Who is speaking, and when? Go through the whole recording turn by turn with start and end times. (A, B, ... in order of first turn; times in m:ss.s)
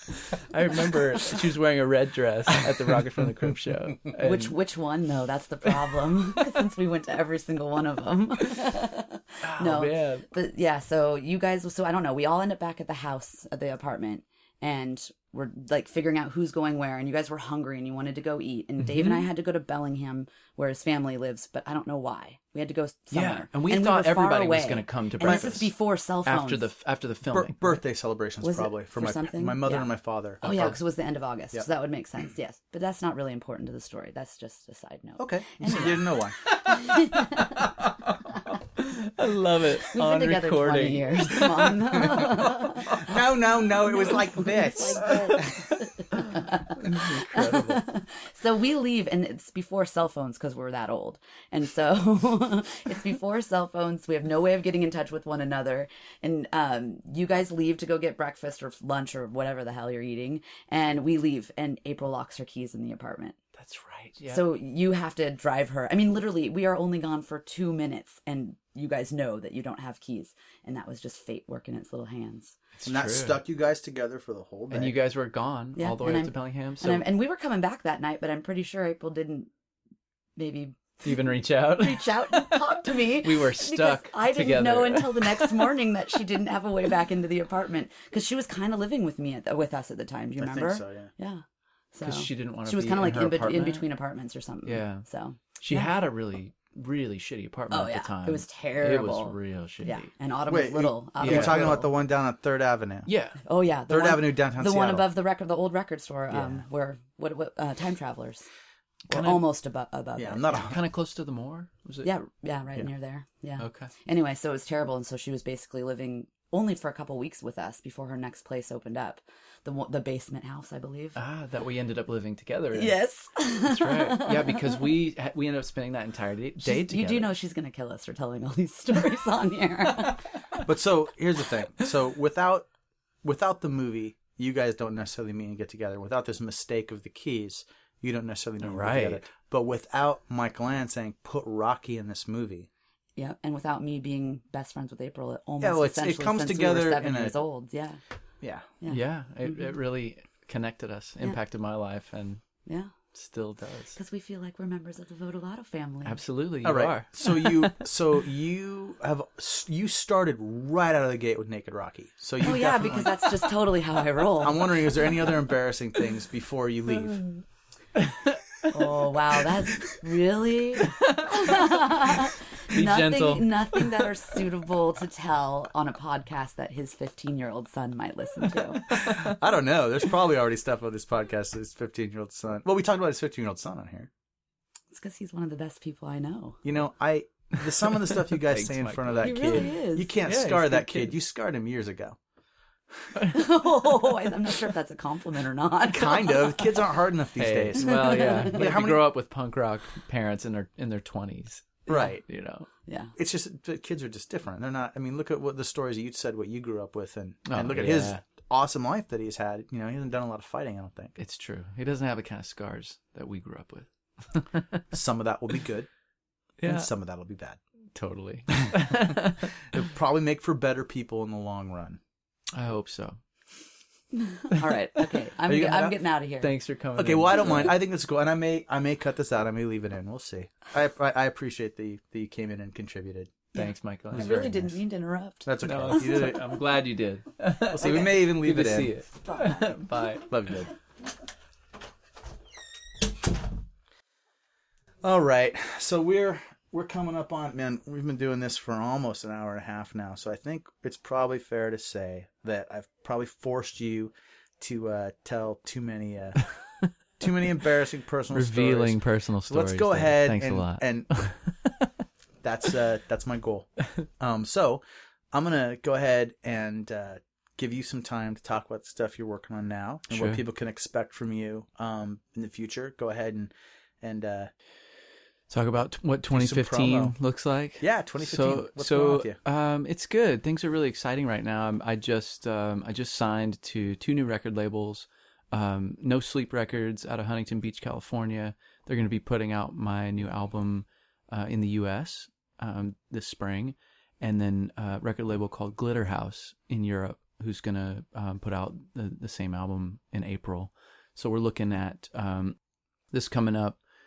0:00.2-0:04.6 A
0:04.2-0:26.7 B
0:09.4-0:10.2 A
0:18.8-0:19.2 A
0:23.1-0:25.7 A
0:25.2-0:25.5 C
0:26.2-0:27.8 A
0:27.3-0:30.7 C
0:28.4-0:37.6 B
0:30.4-0:30.7 A
0:35.2-0:36.4 C
0:36.6-0:42.7 A
0:39.8-0:43.1 B
0:42.9-0:45.2 C
0:43.8-1:03.4 B
0:45.0-0:45.6 A
0:46.1-0:47.8 A
1:03.5-1:04.4 A
1:04.3-1:12.6 B
1:12.8-1:13.4 A
1:12.8-1:14.9 C
1:14.7-1:17.0 A
1:15.8-1:19.5 B
1:20.4-1:35.9 B
1:21.0-1:25.7 A
1:30.4-1:31.1 C
1:32.0-1:33.8 A
1:34.6-1:35.0 A
1:35.6-1:40.1 A
1:37.7-1:41.9 B
1:40.5-1:43.1 C
1:41.2-1:41.7 A
1:43.0-1:43.4 A
1:43.4-1:48.4 B
1:43.9-1:45.1 C
1:46.3-1:46.6 C
1:49.1-1:49.5 A
1:49.1-1:50.6 B
1:50.2-1:50.8 C
1:50.5-1:52.1 A
1:52.0-2:01.2 B
1:53.6-1:53.9 A
2:01.2-2:03.0 A
2:02.7-2:04.9 B
2:03.6-2:07.3 A
2:06.6-2:10.3 B
2:10.6-2:12.6 C
2:13.2-2:22.7 C
2:18.6-2:19.2 A
2:23.2-2:28.0 B
2:25.6-2:27.4 C
2:28.4-2:28.7 C
2:28.9-2:32.4 A
2:32.6-2:32.9 B
2:33.1-2:34.0 A
2:34.0-2:36.2 B
2:36.0-2:37.7 A
2:36.6-2:43.2 C
2:42.4-2:44.9 B
2:44.4-2:47.3 C
2:48.0-2:48.8 A
2:48.7-2:59.0 B
2:50.8-2:54.1 A
2:58.9-2:59.3 A
2:58.9-3:04.1 C
3:04.9-3:06.6 B
3:06.6-3:12.2 C
3:07.8-3:11.2 A
3:09.2-3:10.1 B
3:13.1-3:13.5 A
3:13.3-3:16.7 B
3:15.8-3:19.1 C
3:17.4-3:22.7 A
3:17.8-3:18.6 B
3:21.9-3:22.2 C
3:22.9-3:23.1 B
3:23.2-3:31.1 C
3:27.5-3:28.2 A
3:31.2-3:34.8 A
3:34.9-3:35.9 C
3:36.6-3:36.9 A
3:36.6-3:37.6 C
3:37.9-3:39.5 A
3:38.5-3:42.0 C
3:42.5-3:43.2 A
3:44.2-3:46.5 B
3:45.4-3:46.0 C
3:46.4-3:47.8 A
3:47.0-3:53.4 C
3:53.5-3:54.5 A
3:53.6-3:56.2 B
3:54.1-3:54.8 C
3:55.4-3:56.6 C
3:55.6-4:00.3 A
3:57.6-3:59.0 C
3:59.2-3:59.8 B
4:00.3-4:00.7 C
4:05.0-4:16.4 C
4:17.2-4:21.1 C
4:18.3-4:21.9 A
4:22.4-4:34.5 C
4:30.1-4:30.4 A
4:35.5-5:02.6 A
4:36.3-4:37.1 C
4:37.8-4:39.4 C
5:03.1-5:03.8 A